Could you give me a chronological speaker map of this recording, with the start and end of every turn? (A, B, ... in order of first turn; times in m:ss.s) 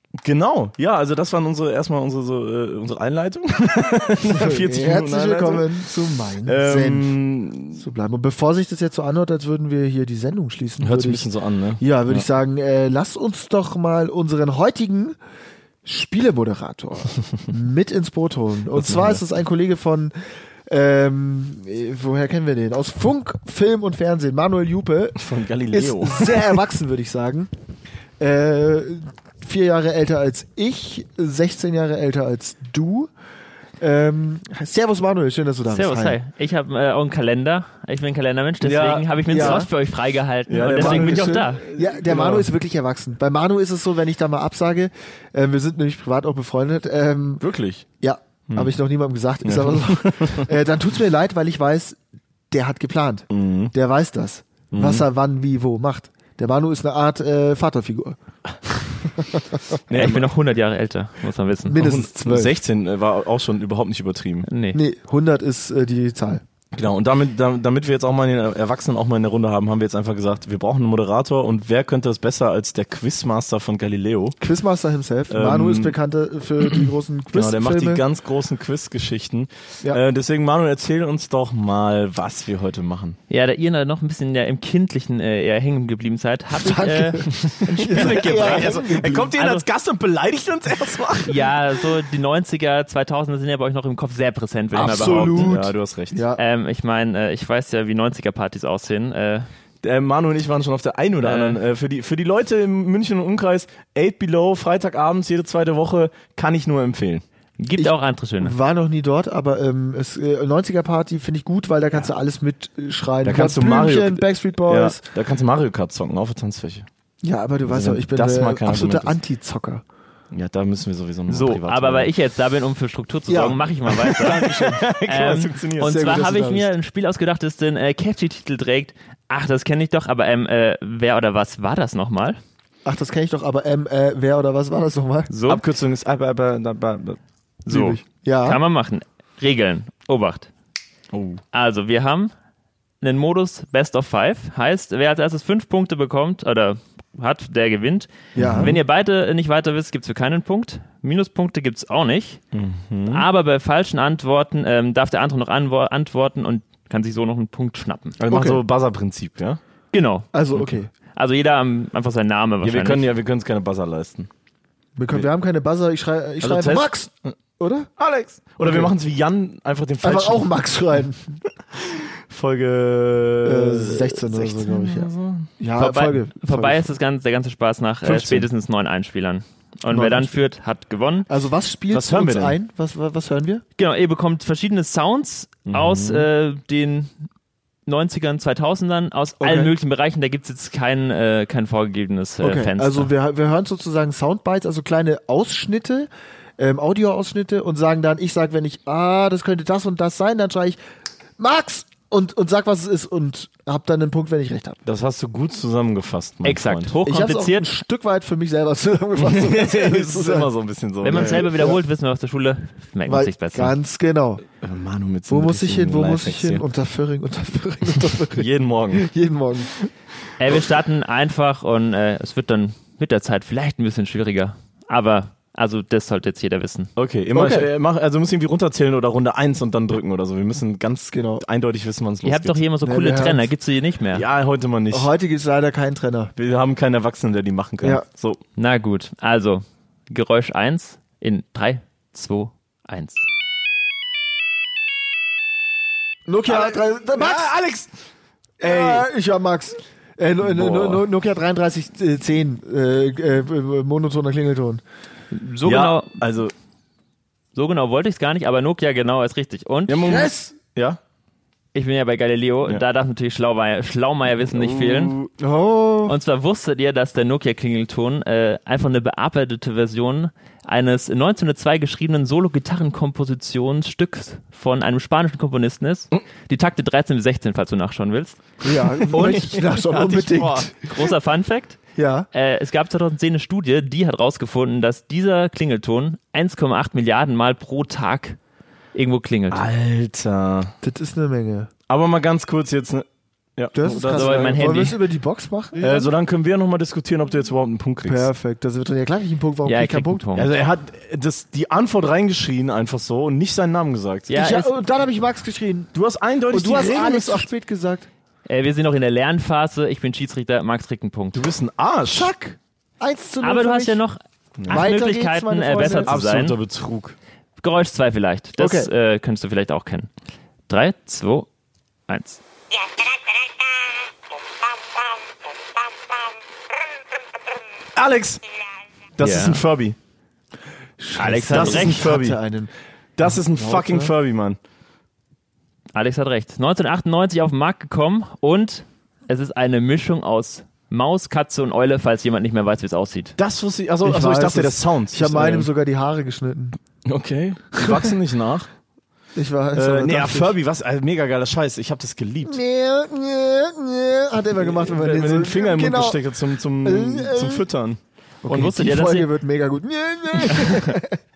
0:00.2-0:05.9 A
0:04.3-0:07.1 B
0:06.4-0:07.8 A
0:07.8-0:11.3 B
0:10.8-0:12.3 A
0:11.8-0:15.2 B
0:15.8-0:20.1 B
0:18.8-0:19.2 A
0:20.7-0:25.2 B
0:25.2-0:26.6 A
0:25.7-0:27.5 B
0:28.2-0:33.1 B
0:33.8-0:36.2 B
0:35.7-0:41.6 C
0:38.6-0:39.7 A
0:39.3-0:39.7 B
0:40.5-0:42.5 A
0:40.7-0:47.4 B
0:47.4-0:47.8 A
0:48.0-0:52.0 B
0:48.5-0:48.8 A
0:49.4-0:50.5 A
0:52.5-0:58.2 B
0:53.3-0:53.7 A
0:54.7-0:55.1 A
0:59.9-1:00.3 A
0:59.9-1:01.8 C
1:01.7-1:02.6 B
1:01.7-1:04.5 A
1:04.5-1:04.8 C
1:04.7-1:06.4 B
1:06.7-1:14.4 A
1:14.4-1:18.0 B
1:15.3-1:16.0 A
1:17.3-1:23.2 A
1:23.3-1:29.6 C
1:26.6-1:29.3 B
1:27.5-1:31.5 A
1:31.2-1:35.5 C
1:34.7-1:36.4 B
1:34.8-1:36.2 A
1:36.4-1:39.5 C
1:39.8-1:47.2 A
1:41.2-1:41.6 C
1:47.6-1:48.6 C
1:47.8-1:55.0 B
1:53.2-1:56.9 A
1:57.2-1:59.8 B
1:57.7-1:59.2 A
2:00.3-2:02.1 A
2:01.3-2:12.4 C
2:03.3-2:04.9 B
2:03.9-2:06.0 A
2:05.8-2:06.7 B
2:12.8-2:15.3 B
2:15.3-2:15.6 C
2:15.5-2:17.2 A
2:17.7-2:20.5 C
2:17.7-2:18.6 B
2:21.1-2:21.4 A
2:21.5-2:22.3 C
2:23.0-2:32.4 C
2:28.4-2:28.8 B
2:28.4-2:28.8 A
2:32.5-2:33.3 A
2:33.1-2:38.2 C
2:38.2-2:39.6 A
2:38.3-2:38.6 B
2:39.9-2:40.3 C
2:40.3-2:40.9 B
2:41.2-2:43.1 C
2:42.6-2:44.3 A
2:45.0-2:47.9 B
2:46.4-2:47.4 A
2:48.0-2:50.5 A
2:48.6-2:48.9 B
2:50.0-2:51.4 B
2:51.7-2:55.5 A
2:53.4-2:56.9 B
2:55.8-3:01.3 C
2:58.0-2:58.5 A
2:59.9-3:00.4 B
3:01.3-3:03.6 B
3:01.9-3:02.6 A
3:03.8-3:07.1 C
3:05.7-3:06.3 A
3:07.9-3:13.1 C
3:09.4-3:09.7 B
3:12.4-3:20.8 B
3:21.4-3:24.8 B
3:24.8-3:27.0 A
3:26.4-3:27.7 C
3:27.0-3:30.5 B
3:29.2-3:31.6 A
3:31.0-3:33.8 C
3:31.1-3:31.8 B
3:33.1-3:34.4 B
3:34.6-3:36.6 A
3:35.3-3:39.7 B
3:38.1-3:39.1 A
3:40.4-3:46.9 C
3:47.0-3:52.6 A
3:47.3-3:47.7 B
3:51.1-3:51.4 B
3:52.2-3:54.3 C
3:52.8-3:53.4 B
3:54.1-3:55.1 A
3:54.9-3:56.3 B
3:56.4-3:58.4 A
3:58.6-4:03.3 C
4:06.3-4:07.5 B
4:06.5-4:07.9 A
4:08.6-4:14.8 B
4:08.6-4:09.1 A
4:10.4-4:11.1 A
4:15.3-4:16.1 C
4:15.6-4:16.5 A
4:17.6-4:20.1 C
4:19.9-4:21.0 A
4:20.0-4:20.6 B
4:21.7-4:25.2 C
4:25.1-4:26.2 B
4:26.1-4:38.4 C
4:38.6-4:40.8 B
4:39.1-4:40.7 A
4:40.8-4:41.8 C
4:42.0-4:42.3 B
4:42.3-4:48.4 C
4:48.9-4:49.6 C
4:49.5-4:50.7 A
4:50.8-4:51.7 B
4:51.9-4:54.9 A
4:53.7-4:56.1 B
4:54.1-4:55.0 C
4:55.8-4:58.3 A
4:58.0-5:00.2 B
4:59.6-5:00.5 C
5:00.4-5:04.3 A
5:04.3-5:04.7 C
5:04.3-5:05.9 B
5:05.9-5:07.5 A
5:06.5-5:08.1 B
5:08.5-5:11.4 C
5:11.3-5:12.3 A
5:12.1-5:14.0 B
5:13.4-5:16.6 C
5:14.6-5:14.9 A
5:14.7-5:16.2 B
5:16.0-5:17.2 A
5:17.6-5:20.1 C
5:18.6-5:18.9 B
5:20.7-5:21.5 C
5:22.1-5:22.4 C
5:28.0-5:28.4 A
5:29.2-5:30.0 A
5:29.2-5:29.6 C
5:31.0-5:32.7 B
5:31.2-5:32.1 C
5:31.5-5:32.4 A
5:33.2-5:34.6 A
5:33.2-5:34.1 B
5:35.9-5:43.4 C
5:43.4-5:45.7 A
5:44.0-5:46.8 B
5:47.0-5:48.7 A
5:47.8-5:48.1 B
5:49.4-5:50.6 B
5:49.8-5:52.6 A
5:52.4-5:56.2 B
5:54.6-5:58.0 A
5:56.8-5:57.7 B
5:58.4-6:01.2 B
5:58.5-5:59.3 C
6:00.5-6:01.0 C